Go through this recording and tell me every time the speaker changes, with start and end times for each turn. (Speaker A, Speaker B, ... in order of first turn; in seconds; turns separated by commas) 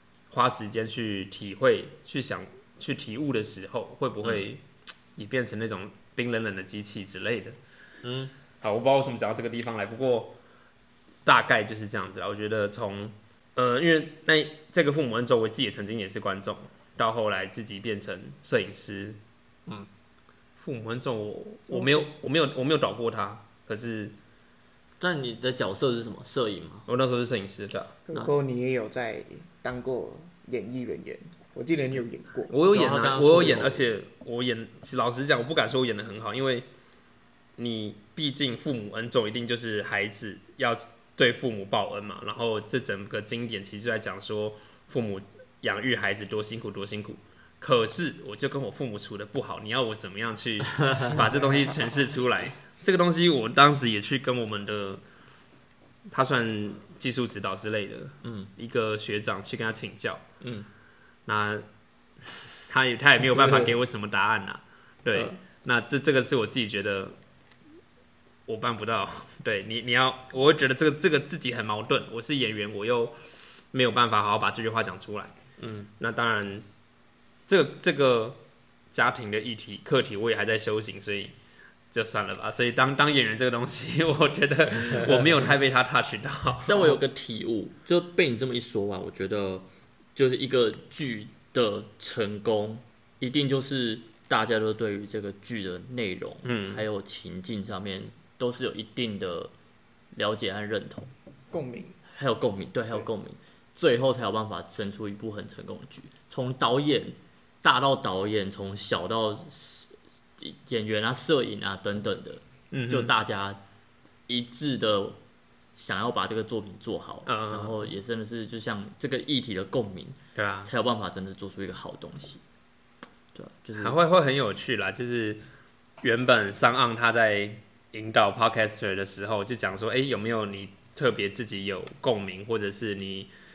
Speaker A: 0.3-4.6, Speaker A: 5.2-7.6, Speaker B: 8.0-8.3, Speaker A: 8.6-10.3, Speaker A: 11.2-19.2, Speaker A: 20.6-24.1, Speaker B: 25.0-26.9, Speaker A: 26.9-27.9, Speaker C: 28.1-32.5, Speaker A: 32.5-36.6, Speaker B: 32.7-33.9, Speaker A: 37.6-55.0, Speaker B: 50.8-51.1, Speaker A: 56.1-60.2, Speaker B: 58.2-58.5, Speaker B: 60.4-60.7, Speaker A: 61.2-61.6, Speaker A: 62.7-67.2, Speaker A: 68.5-73.2, Speaker A: 73.7-75.3, Speaker B: 75.6-75.9, Speaker A: 76.0-76.6, Speaker A: 77.5-78.4, Speaker A: 78.9-81.3, Speaker A: 81.9-87.0, Speaker B: 86.7-99.5, Speaker A: 96.4-96.8, Speaker B: 100.1-101.1, Speaker C: 101.5-102.0, Speaker B: 102.1-113.6, Speaker A: 112.7-113.1, Speaker B: 114.3-115.2, Speaker B: 115.8-122.4, Speaker A: 117.2-117.9, Speaker A: 120.3-120.7, Speaker B: 123.3-124.0, Speaker A: 123.8-125.4, Speaker A: 126.0-133.3